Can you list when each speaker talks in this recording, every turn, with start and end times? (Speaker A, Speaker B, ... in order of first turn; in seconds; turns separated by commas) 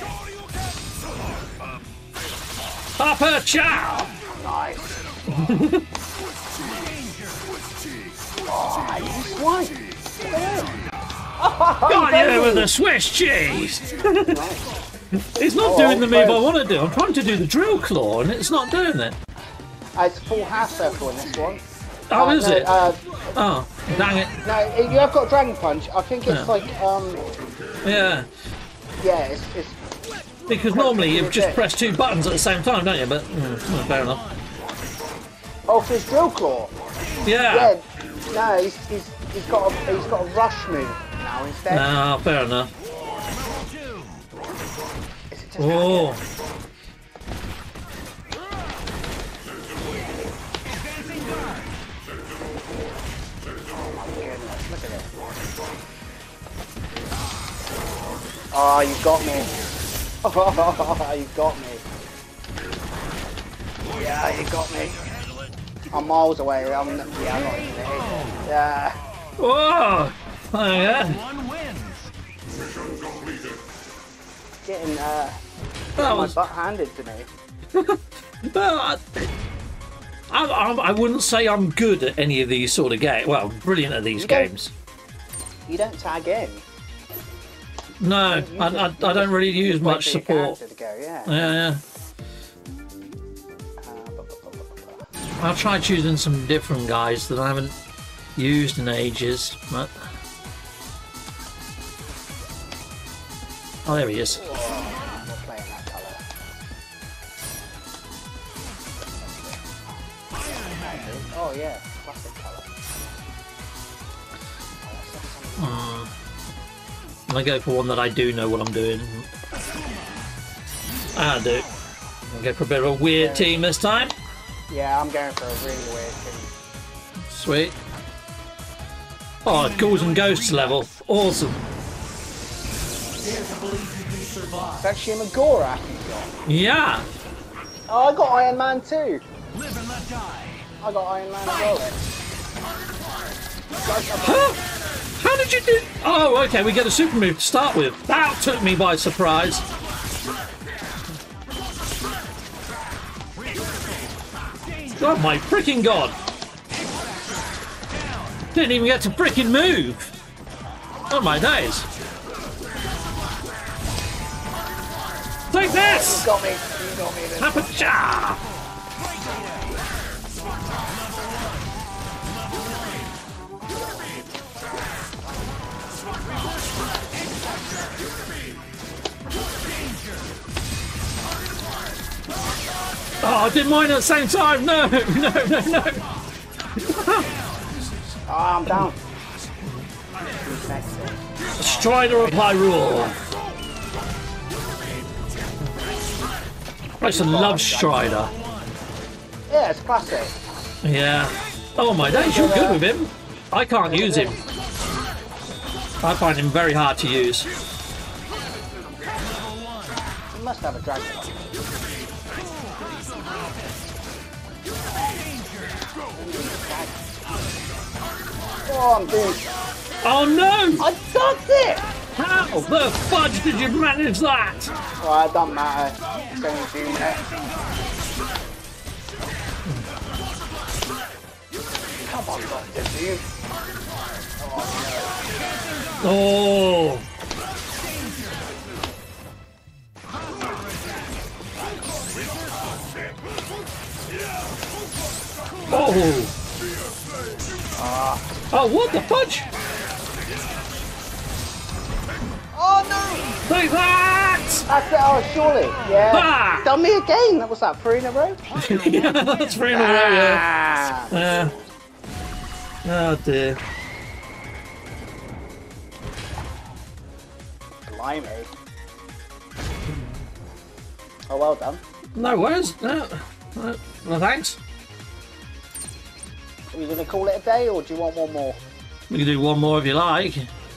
Speaker A: 3.0-4.1, Speaker B: 4.2-4.9, Speaker A: 5.3-5.8, Speaker C: 6.8-7.3, Speaker B: 8.5-10.8, Speaker B: 11.4-12.7, Speaker A: 11.9-14.4, Speaker B: 14.2-14.7, Speaker A: 15.2-19.1, Speaker B: 15.6-16.4, Speaker B: 20.0-27.2, Speaker A: 22.1-22.8, Speaker A: 23.4-24.4, Speaker A: 27.8-28.3, Speaker B: 29.0-29.8, Speaker A: 30.5-34.2, Speaker B: 30.7-31.6, Speaker B: 35.7-36.7, Speaker A: 37.2-37.7, Speaker B: 37.4-41.9, Speaker A: 41.7-42.7, Speaker B: 45.3-46.2, Speaker A: 45.6-46.2, Speaker B: 53.7-55.1, Speaker B: 58.5-59.6, Speaker B: 60.2-61.8, Speaker B: 63.9-65.0, Speaker B: 65.9-69.0, Speaker A: 69.4-71.3, Speaker C: 71.3-72.1, Speaker B: 74.7-75.4, Speaker B: 75.9-77.3, Speaker A: 76.0-76.4, Speaker A: 77.7-79.3, Speaker A: 80.3-84.7, Speaker B: 84.2-84.5, Speaker B: 85.7-86.6, Speaker A: 88.0-90.6, Speaker B: 88.2-91.5, Speaker A: 91.3-91.8, Speaker B: 93.8-95.0, Speaker A: 95.4-97.8, Speaker A: 98.4-99.9, Speaker A: 103.8-104.5, Speaker B: 104.3-106.2, Speaker B: 109.2-109.9, Speaker B: 110.7-112.8, Speaker B: 114.8-116.0, Speaker A: 115.6-116.1, Speaker A: 117.3-119.3, Speaker A: 121.1-121.7, Speaker A: 122.3-124.2, Speaker B: 123.2-123.7, Speaker B: 124.7-126.5, Speaker A: 127.3-127.8, Speaker A: 129.4-131.6, Speaker C: 133.3-134.7, Speaker B: 134.7-136.3, Speaker A: 136.4-137.1, Speaker B: 137.9-139.2, Speaker C: 139.6-140.6, Speaker B: 140.8-142.0, Speaker B: 143.8-144.6, Speaker A: 144.2-144.6, Speaker A: 145.2-149.7, Speaker A: 155.0-156.2, Speaker A: 158.5-160.1, Speaker A: 161.1-161.9, Speaker A: 165.5-166.3, Speaker B: 165.7-167.9, Speaker A: 167.4-168.4, Speaker A: 183.2-186.0, Speaker A: 186.8-187.3, Speaker B: 188.3-189.0, Speaker B: 190.3-192.4, Speaker A: 191.6-193.2, Speaker A: 197.0-198.3, Speaker B: 197.0-198.3, Speaker B: 199.5-200.4, Speaker A: 200.8-204.4, Speaker B: 202.0-202.8, Speaker B: 203.8-204.4, Speaker A: 206.0-207.5, Speaker B: 210.3-211.5, Speaker C: 212.8-213.5, Speaker B: 216.1-217.0, Speaker B: 218.7-219.5, Speaker A: 220.0-220.8, Speaker B: 220.8-221.9, Speaker A: 222.2-224.7, Speaker B: 225.0-227.3, Speaker B: 232.0-233.2, Speaker B: 234.4-235.2, Speaker A: 236.0-237.1, Speaker A: 245.7-246.3, Speaker B: 247.8-248.4, Speaker A: 248.5-249.5, Speaker B: 252.6-253.4, Speaker A: 253.4-254.7, Speaker B: 254.7-258.5, Speaker A: 256.1-256.7, Speaker A: 258.6-260.4, Speaker B: 259.7-261.2, Speaker A: 261.0-261.5, Speaker A: 262.8-263.6, Speaker B: 267.9-268.5, Speaker B: 271.3-271.8, Speaker A: 272.2-274.6, Speaker B: 276.7-278.6, Speaker A: 279.1-280.5